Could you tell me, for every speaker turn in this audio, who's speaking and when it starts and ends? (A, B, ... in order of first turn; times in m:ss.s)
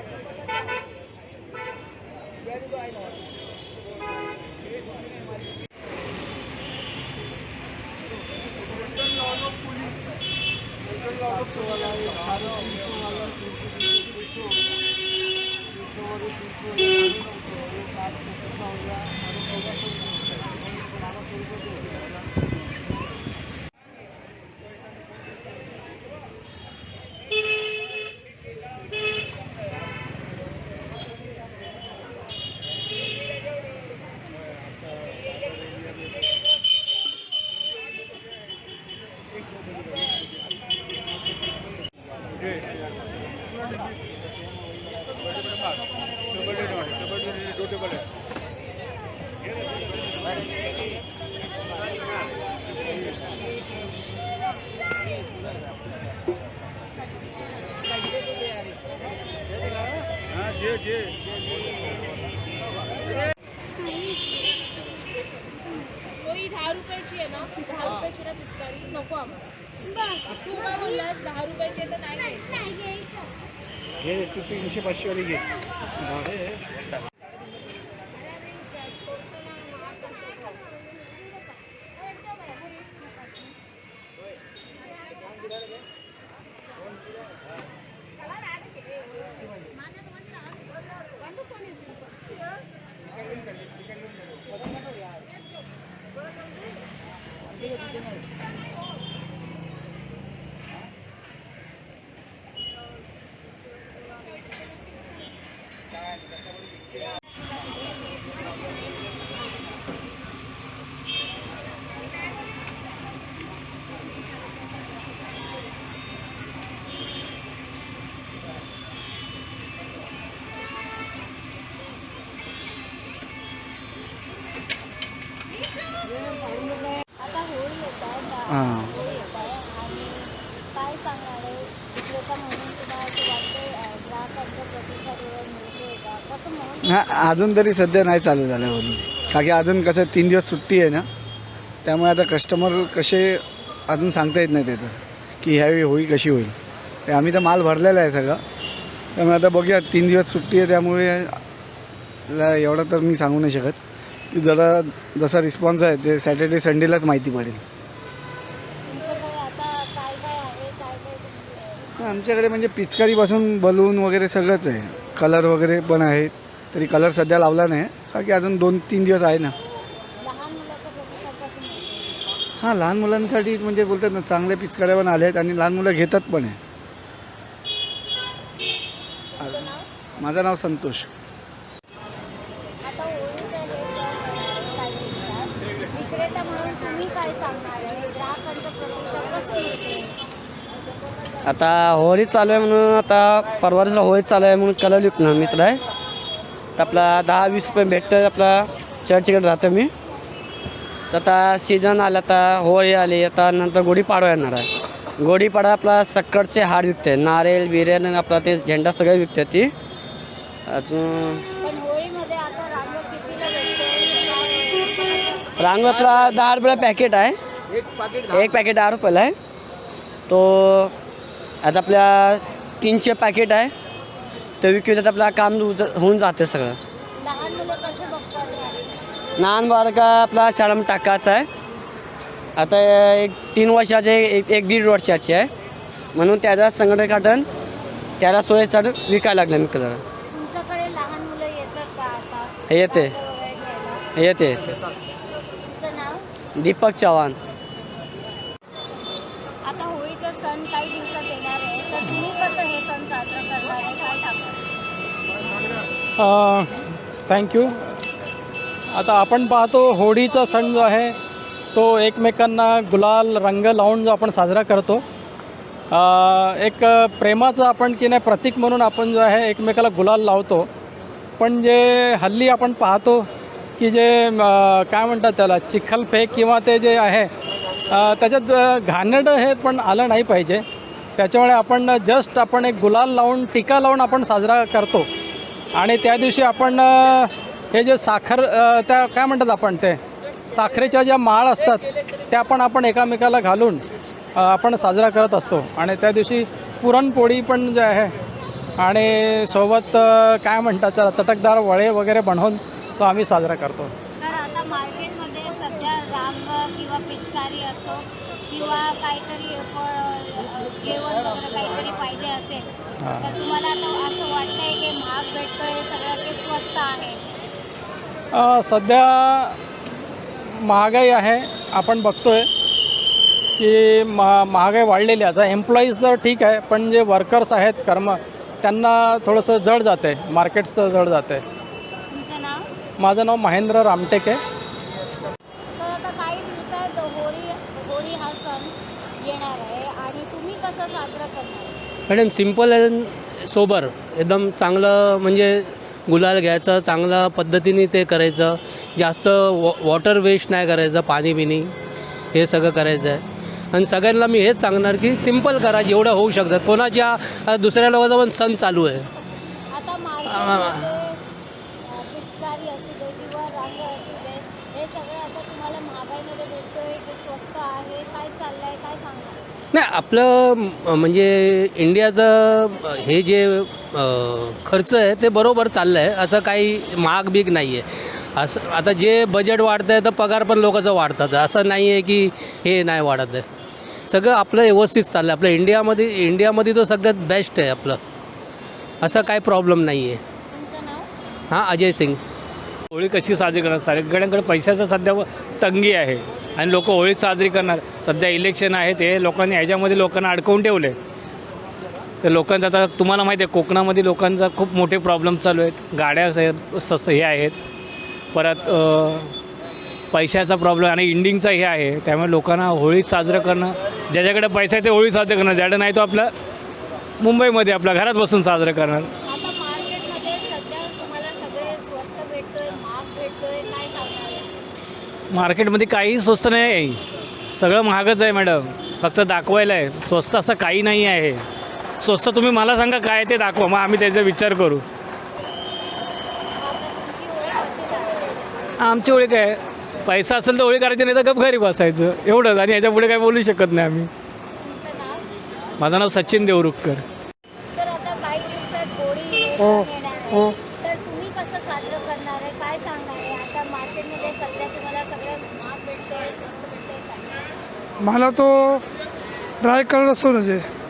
1:06.6-1:09.3 A
1:10.3-1:11.0 B
1:11.2-1:12.3 A
2:07.2-2:17.0 B
2:08.5-2:08.9 C
2:16.8-2:21.1 C
2:21.8-2:26.6 C
2:27.1-2:28.4 C
2:29.2-2:31.3 C
2:32.3-2:33.8 C
2:34.3-2:37.6 C
2:38.9-2:42.0 B
2:42.0-2:49.6 C
2:50.2-2:52.2 B
2:52.6-2:56.6 C
2:59.4-2:59.8 B
3:00.2-3:01.1 C
3:02.8-3:10.1 B
3:11.4-3:15.8 D
3:16.8-3:19.9 D
3:21.1-3:24.7 D
3:25.2-3:29.7 D
3:30.7-3:31.4 D
3:31.6-3:35.0 B
3:35.6-3:37.4 D
3:38.3-3:39.4 D
3:40.3-3:40.9 D
3:41.6-3:43.7 D
3:44.6-3:46.8 D
3:47.2-3:48.9 B
3:49.4-3:51.5 D
3:52.6-3:55.5 D
3:56.1-3:57.5 D
3:58.2-4:00.0 D
4:00.3-4:04.0 B
4:02.7-4:03.1 D
4:04.2-4:04.7 D
4:05.6-4:06.2 B
4:06.6-4:07.4 D
4:09.6-4:14.6 B
4:16.2-4:17.9 E
4:18.9-4:21.2 E
4:21.7-4:25.0 E
4:25.9-4:30.7 E
4:31.4-4:37.3 E
4:37.9-4:40.6 E
4:41.2-4:45.1 E
4:45.7-4:53.8 E
4:54.4-4:58.1 E
4:58.8-5:03.9 E
5:04.2-5:12.7 B
5:13.0-5:13.3 E
5:13.2-5:17.4 B
5:18.3-5:19.6 E
5:20.4-5:22.5 E
5:23.6-5:31.4 E
5:32.1-5:32.7 B
5:33.0-5:34.4 E
5:35.7-5:41.8 B
5:42.1-5:51.7 F
5:52.3-5:59.1 F
5:59.7-6:01.2 B
6:00.3-6:00.8 F
6:01.8-6:09.4 B
6:09.7-6:23.4 F
6:24.1-6:28.0 F
6:29.0-6:30.2 F
6:30.5-6:31.1 B
6:31.5-6:32.2 F
6:32.9-6:41.0 G
6:42.2-6:47.6 G
6:48.3-6:49.3 G
6:50.1-6:56.3 G
6:57.2-6:59.1 G
6:59.2-7:04.5 B
7:05.3-7:07.0 G
7:07.6-7:11.4 G
7:12.0-7:14.8 G
7:16.6-7:18.2 B
7:18.8-7:24.1 G
7:24.6-7:25.2 B
7:25.8-7:27.0 G
7:27.7-7:37.7 B
7:29.6-7:30.6 H
7:38.0-7:38.8 H
7:39.6-7:40.6 H